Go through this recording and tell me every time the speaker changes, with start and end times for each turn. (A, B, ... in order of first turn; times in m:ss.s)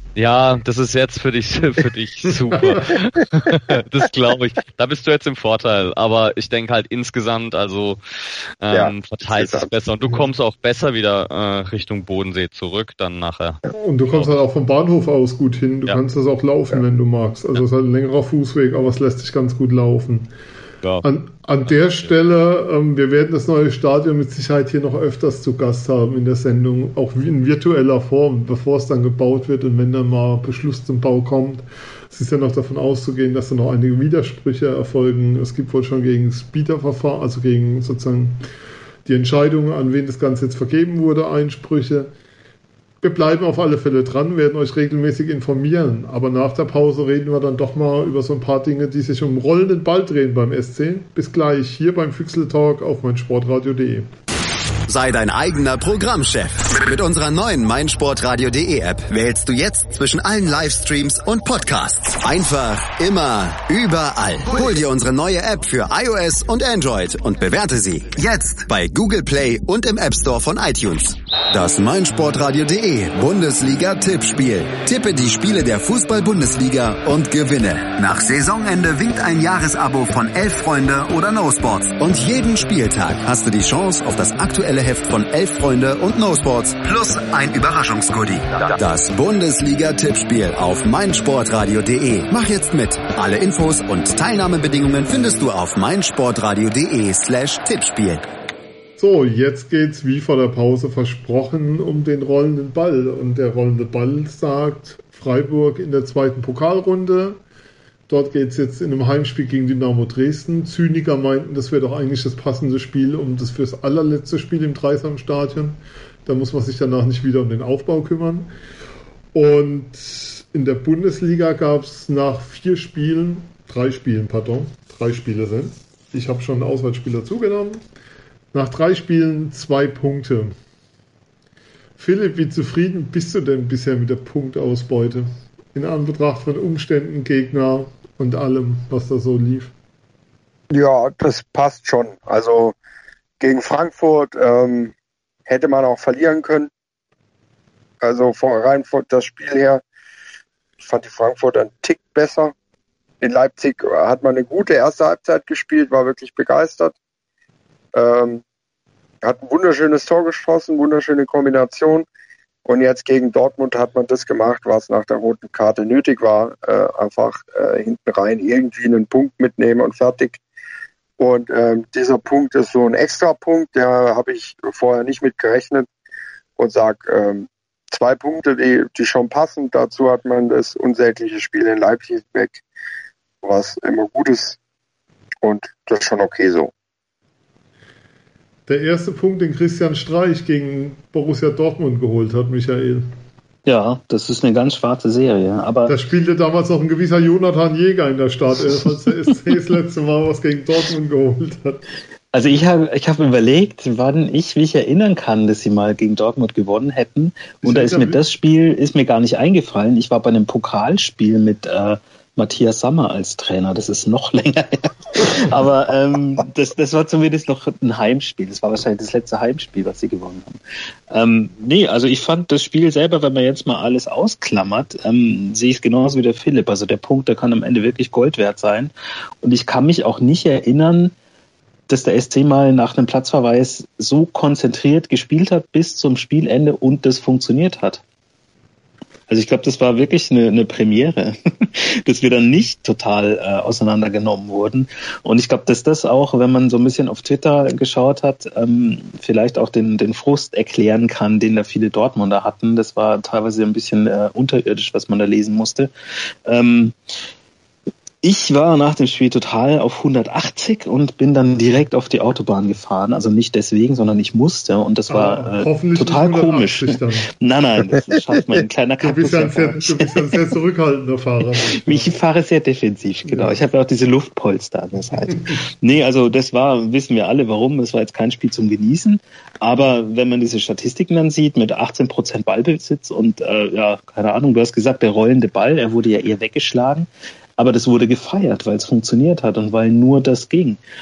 0:00.2-0:08.0 A
0:02.5-0:02.9 B
0:08.6-0:14.4 A
0:08.7-0:09.7 C
0:13.7-0:20.3 B
0:21.0-0:38.4 B
0:21.7-0:22.1 A
0:39.0-0:42.1 B
0:43.0-0:54.1 B
0:54.9-1:38.3 D
1:39.0-1:47.4 B
1:48.1-1:58.5 B
1:59.3-2:07.8 B
2:08.5-2:10.5 B
2:12.0-2:19.7 B
2:20.7-2:22.8 C
2:23.4-2:24.9 C
2:25.5-2:26.7 C
2:28.0-2:29.8 C
2:30.8-2:32.5 C
2:33.2-2:37.0 C
2:37.9-2:38.4 C
2:39.2-2:42.1 C
2:42.7-2:50.4 C
2:51.2-2:55.9 C
2:56.6-3:02.6 C
3:03.4-3:04.6 C
3:05.4-3:06.7 C
3:08.7-3:13.1 B
3:13.7-3:15.9 E
3:15.9-3:21.9 B
3:22.3-3:40.6 E
3:27.6-3:28.2 B
3:41.1-3:51.1 E
3:51.9-3:58.0 E
3:59.3-4:15.9 E
4:16.5-4:17.0 E
4:18.2-4:30.2 E
4:25.1-4:27.3 B
4:29.0-4:32.1 B
4:31.7-4:50.8 E
4:33.3-4:33.6 B